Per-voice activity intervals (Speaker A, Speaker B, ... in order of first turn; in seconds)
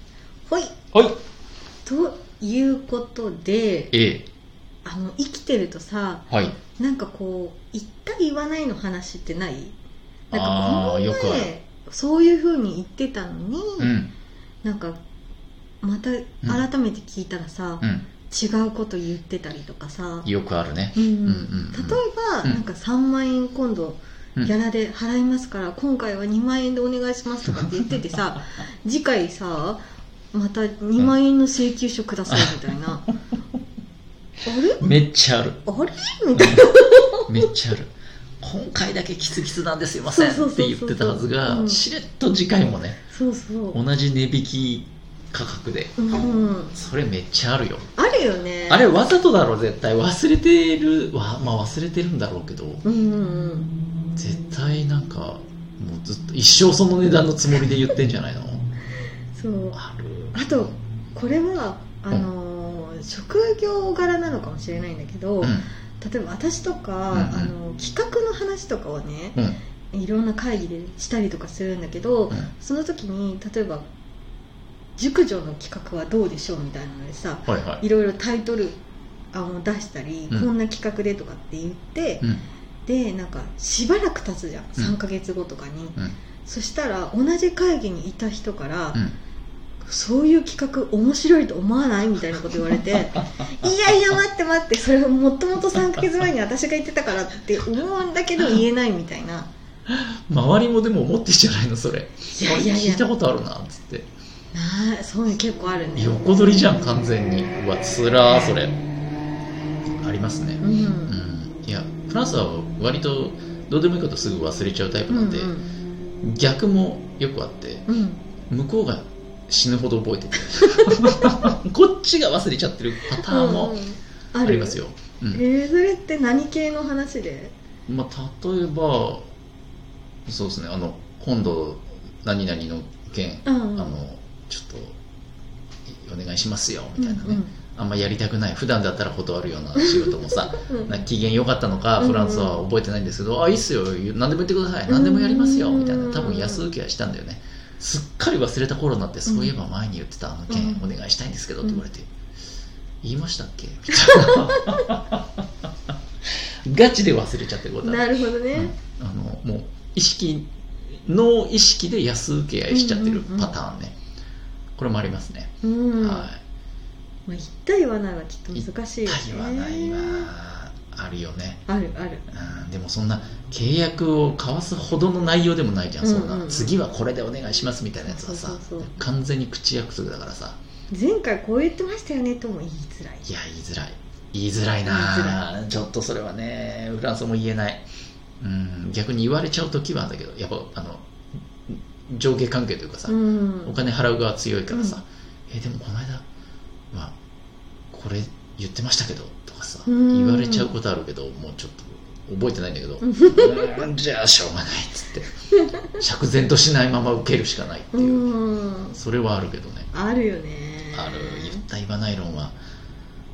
Speaker A: 0.5-0.8, 1.8-3.9, 4.8-9.7, 10.3-13.9, 14.6-15.0, 15.8-20.3, 20.9-29.8, 30.3-33.0, 34.4-34.8, 35.6-37.4, 40.1-41.9, 43.1-43.8, 46.0-46.7, 48.0-48.9, 52.8-53.7, 59.3-59.8, 60.3-69.4, 69.9-73.9, 75.0-78.8, 79.3-82.3, 82.8-89.0, 89.8-99.5, 102.3-103.0, 104.5-106.2, 110.6-111.1, 115.1-115.7, 117.9-118.2, 120.8-121.3, 123.1-124.8, 125.3-127.5, 133.4-133.9, 137.0-137.5, 139.8-140.1, 140.6-140.9, 142.0-142.6, 144.9-146.6, 149.3-149.6, 150.5-150.8, 153.9-154.9, 157.8-158.7, 162.7-163.6, 165.6-166.3, 167.3-170.3, 171.7-172.2, 176.0-176.7, 178.1-178.9, 180.9-183.3, 184.8-185.4, 193.1-193.8, 194.7-195.0, 199.8-200.7, 203.0-203.9, 207.9-209.0, 209.9-211.6
Speaker B: 3.9-4.3, 6.3-6.6, 10.3-11.5, 13.8-14.1, 17.8-18.1, 20.2-22.6, 32.3-32.5, 34.8-35.6, 36.3-36.7, 37.2-43.0, 43.7-46.1, 46.7-47.9, 48.7-52.8, 54.1-58.6, 59.7-60.6, 65.4-65.7, 67.1-67.5, 77.5-77.8, 99.9-104.1, 106.0-108.8, 109.8-115.5, 116.2-117.9, 118.5-123.8, 124.4-125.4, 127.9-129.3, 130.3-135.0, 135.9-152.1, 153.0-155.4, 156.7-160.5, 161.0-163.9, 164.8-166.4, 168.5-171.6, 172.3-180.6, 183.2-187.8, 188.4-191.1, 191.7-196.2, 197.9-205.3, 205.9-208.3, 208.9-209.9, 210.9-212.6